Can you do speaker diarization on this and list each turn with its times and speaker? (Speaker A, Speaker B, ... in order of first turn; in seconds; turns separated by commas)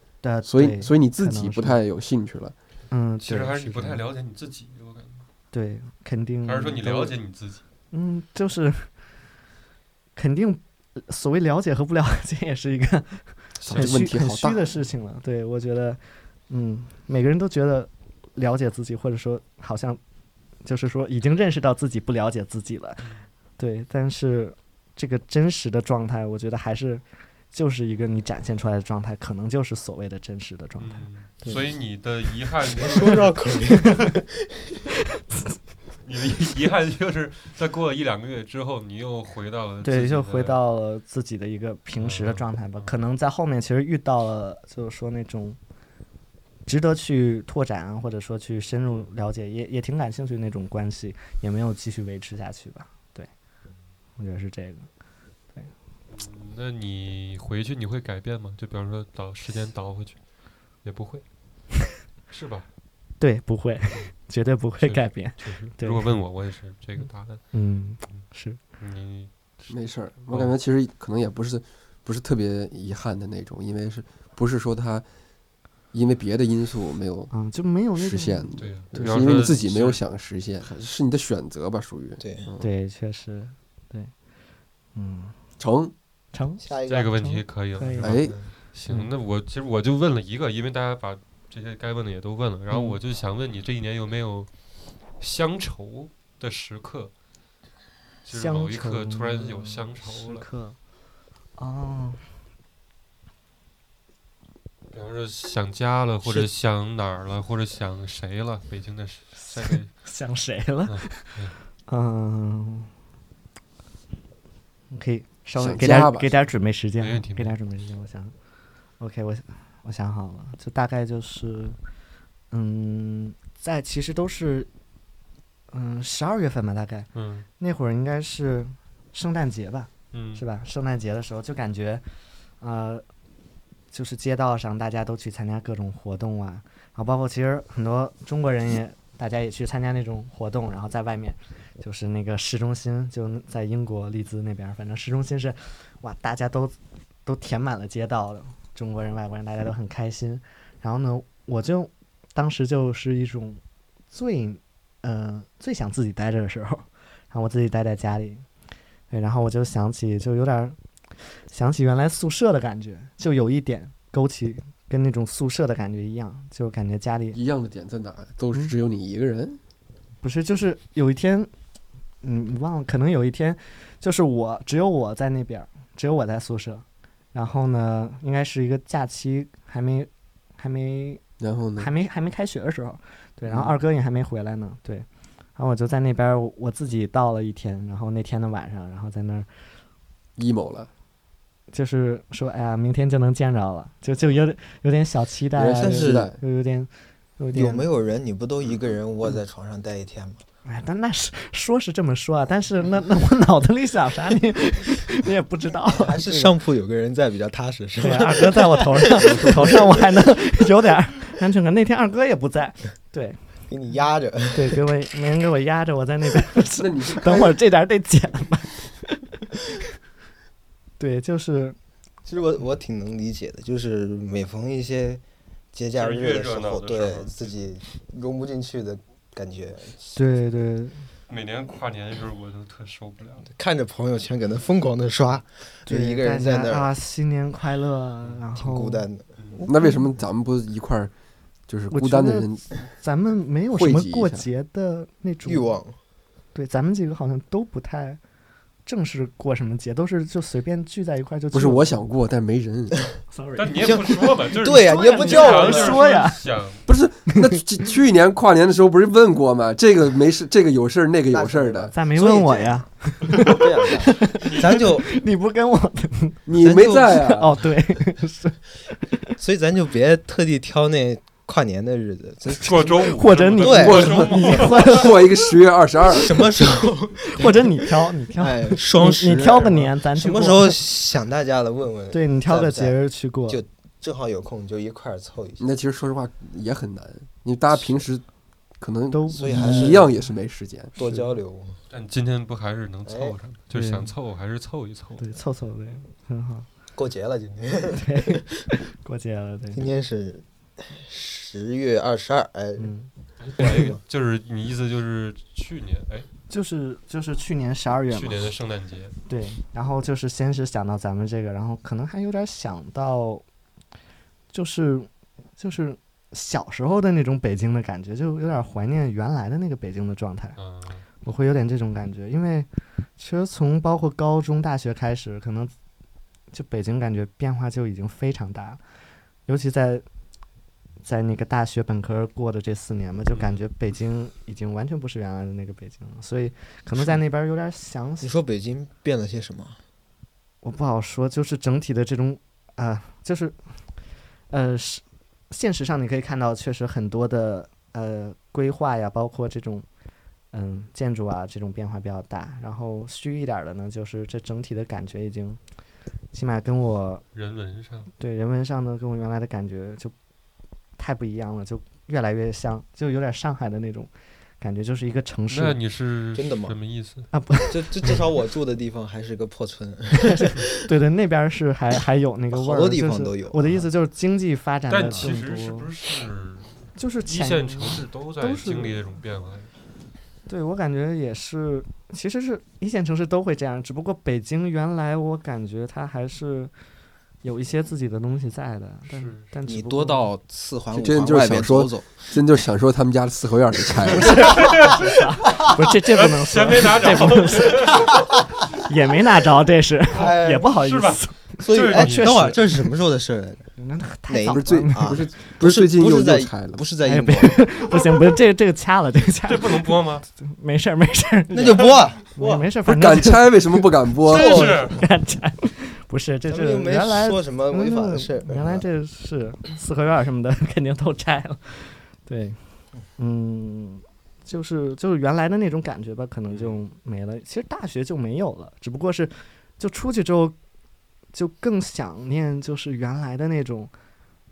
Speaker A: 0.2-1.8, Speaker B: 0.4-2.5, Speaker A: 2.9-4.0, Speaker C: 3.2-5.2, Speaker A: 5.5-7.2, Speaker C: 6.5-7.6, Speaker A: 7.9-8.9, Speaker A: 10.2-20.0, Speaker C: 13.6-14.0, Speaker B: 13.6-14.6, Speaker A: 20.6-31.6, Speaker C: 30.8-34.0, Speaker D: 32.7-34.2, Speaker C: 36.0-40.6, Speaker A: 39.8-45.6, Speaker C: 42.0-42.9, Speaker A: 46.7-53.3, Speaker A: 54.2-54.9, Speaker C: 56.1-60.2, Speaker C: 60.8-61.2, Speaker C: 62.3-62.7, Speaker A: 63.2-66.1, Speaker C: 64.8-67.4, Speaker A: 67.5-68.6, Speaker C: 68.8-69.7, Speaker B: 69.7-75.0, Speaker C: 70.2-70.5, Speaker B: 75.9-77.3, Speaker A: 77.3-78.5, Speaker B: 78.0-82.7, Speaker C: 78.6-80.0, Speaker D: 82.2-82.5, Speaker A: 82.6-84.1, Speaker A: 85.0-85.3, Speaker B: 85.6-85.9, Speaker A: 86.3-86.6, Speaker D: 86.6-87.2, Speaker C: 86.9-94.5, Speaker A: 87.2-88.3, Speaker B: 88.0-88.4, Speaker A: 92.7-93.0, Speaker C: 95.2-97.1, Speaker C: 98.2-100.5, Speaker A: 98.3-100.8, Speaker A: 101.6-102.3, Speaker C: 104.9-109.9, Speaker A: 110.0-112.9, Speaker C: 110.9-111.6, Speaker A: 114.9-118.3, Speaker B: 115.6-116.4, Speaker C: 117.0-117.5, Speaker A: 119.0-121.8, Speaker A: 122.5-124.7, Speaker A: 125.7-132.0, Speaker C: 127.2-127.5, Speaker C: 130.1-130.4, Speaker A: 132.6-133.0, Speaker A: 133.9-146.8, Speaker A: 147.2-153.6, Speaker A: 154.1-158.4, Speaker A: 159.1-160.8, Speaker A: 161.5-167.4, Speaker B: 167.3-169.6, Speaker A: 170.2-171.5, Speaker A: 172.2-181.2, Speaker B: 181.4-181.9, Speaker A: 181.8-185.1, Speaker B: 183.5-183.7, Speaker A: 185.6-189.5, Speaker B: 190.4-190.9, Speaker A: 191.7-197.9, Speaker B: 195.5-196.4, Speaker D: 195.7-196.4, Speaker D: 197.5-200.4, Speaker A: 200.7-206.6, Speaker D: 205.9-210.2, Speaker A: 208.0-213.4, Speaker D: 213.7-214.8, Speaker A: 214.5-219.4, Speaker B: 216.8-217.6, Speaker A: 221.0-221.8, Speaker D: 222.2-225.2, Speaker D: 225.7-230.2, Speaker C: 226.0-227.5, Speaker A: 230.2-231.0, Speaker C: 231.3-233.5, Speaker D: 233.4-236.9, Speaker A: 235.9-239.1, Speaker D: 238.5-239.3, Speaker C: 239.4-239.6, Speaker B: 239.7-241.1, Speaker B: 241.7-242.7, Speaker A: 241.9-245.8, Speaker B: 243.7-244.5, Speaker D: 245.4-246.0, Speaker A: 246.5-248.2, Speaker A: 248.9-252.0, Speaker B: 251.5-253.0, Speaker A: 253.3-254.2, Speaker C: 253.6-256.8, Speaker D: 253.8-256.0, Speaker A: 254.7-256.4, Speaker B: 256.9-261.9, Speaker D: 261.3-265.1, Speaker A: 261.9-266.5, Speaker C: 263.3-263.6, Speaker C: 264.4-264.8, Speaker B: 266.5-267.6, Speaker D: 266.6-267.3, Speaker A: 267.1-269.3, Speaker D: 269.4-274.7, Speaker C: 272.6-275.0, Speaker A: 273.0-275.4, Speaker B: 273.8-276.7, Speaker D: 276.1-283.0, Speaker A: 277.3-280.8, Speaker B: 279.2-279.7, Speaker A: 282.1-283.6, Speaker D: 283.5-285.7, Speaker B: 285.6-288.2, Speaker B: 288.8-290.9, Speaker A: 289.1-290.1, Speaker D: 289.3-290.2, Speaker D: 291.0-291.8, Speaker A: 291.0-291.3, Speaker C: 291.9-295.2, Speaker D: 293.1-293.4, Speaker A: 293.7-294.1, Speaker A: 295.2-296.7, Speaker D: 296.9-298.7, Speaker A: 297.9-299.8, Speaker D: 299.8-302.9, Speaker A: 302.8-303.1, Speaker C: 303.4-306.3, Speaker D: 303.6-304.0, Speaker A: 306.5-308.5, Speaker C: 308.1-309.1, Speaker A: 309.3-313.4, Speaker A: 314.5-320.6, Speaker C: 320.6-321.0, Speaker A: 321.2-325.7, Speaker A: 326.5-328.8, Speaker A: 329.5-330.0, Speaker A: 331.0-338.3, Speaker C: 333.3-333.6, Speaker D: 338.2-339.8, Speaker A: 340.6-343.6, Speaker A: 344.5-349.9, Speaker A: 350.5-355.6, Speaker A: 356.3-357.2, Speaker C: 357.3-358.1, Speaker A: 358.2-360.1, Speaker A: 361.0-365.8, Speaker C: 365.5-367.3, Speaker D: 366.4-366.8, Speaker A: 367.3-367.9, Speaker D: 367.7-370.8, Speaker A: 370.2-375.9, Speaker D: 372.5-373.8, Speaker C: 374.9-379.7, Speaker A: 377.0-379.0, Speaker A: 380.5-386.7, Speaker A: 387.4-390.3, Speaker C: 389.1-389.5, Speaker D: 389.7-392.4, Speaker B: 390.9-394.6, Speaker A: 394.1-402.9, Speaker C: 394.2-398.2, Speaker D: 400.1-400.7, Speaker C: 400.1-402.5, Speaker D: 401.6-403.7, Speaker A: 403.8-405.2, Speaker D: 404.3-408.0, Speaker B: 404.5-406.9, Speaker A: 407.0-422.6, Speaker C: 409.4-410.2, Speaker D: 411.5-412.7, Speaker B: 412.9-414.6, Speaker D: 414.2-415.0, Speaker C: 414.3-415.0, Speaker D: 416.5-418.9, Speaker A: 423.2-430.6, Speaker C: 426.5-426.8, Speaker A: 431.3-433.9